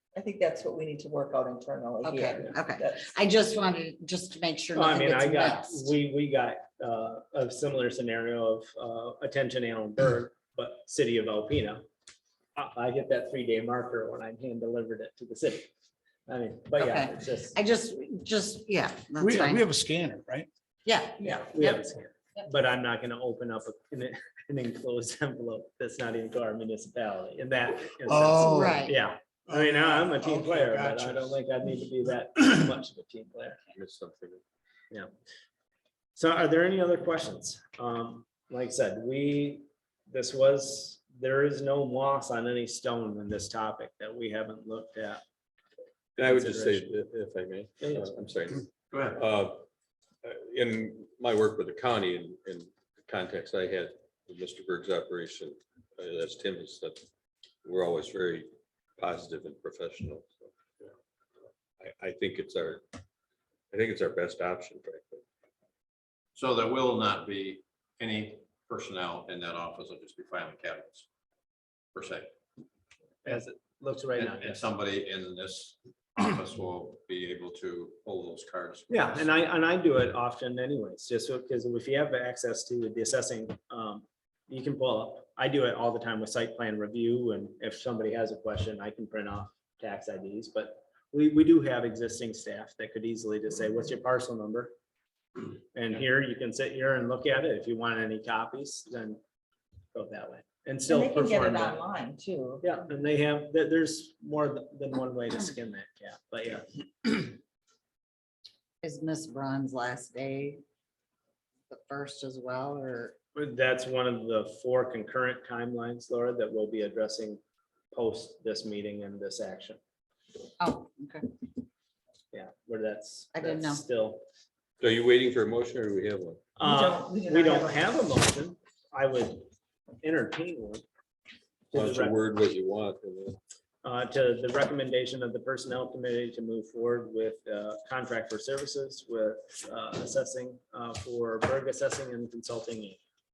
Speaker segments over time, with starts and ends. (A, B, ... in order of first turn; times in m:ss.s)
0:00.1-0:03.1 A
0:02.0-0:05.9 B
0:04.7-0:11.8 C
0:12.6-0:15.7 C
0:16.3-0:17.6 C
0:16.7-0:19.6 B
0:19.2-0:20.5 D
0:20.8-0:21.8 B
0:21.2-0:33.6 C
0:28.0-0:28.8 D
0:28.4-0:29.0 B
0:29.5-0:31.4 D
0:33.7-0:34.4 E
0:36.2-0:45.2 C
0:46.2-0:49.6 E
0:46.2-0:46.9 C
0:47.8-0:48.1 C
0:48.9-0:49.2 F
0:50.2-0:57.0 E
0:57.6-1:00.9 E
1:01.8-1:02.8 E
1:03.7-1:05.2 E
1:06.3-1:11.1 F
1:11.9-1:12.3 F
1:13.2-1:14.6 C
1:14.1-1:19.1 F
1:18.9-1:34.7 C
1:35.7-1:39.2 C
1:39.9-1:41.8 C
1:40.8-1:42.7 A
1:42.6-1:47.3 C
1:48.8-1:50.6 B
1:51.7-1:53.1 B
1:53.3-1:59.8 C
2:00.6-2:01.2 B
2:02.3-2:04.2 C
2:03.3-2:03.8 B
2:04.8-2:06.4 E
2:06.6-2:09.5 C
2:06.6-2:07.9 A
2:10.0-2:10.8 C
2:11.7-2:12.2 C
2:11.7-2:13.4 E
2:13.8-2:23.0 C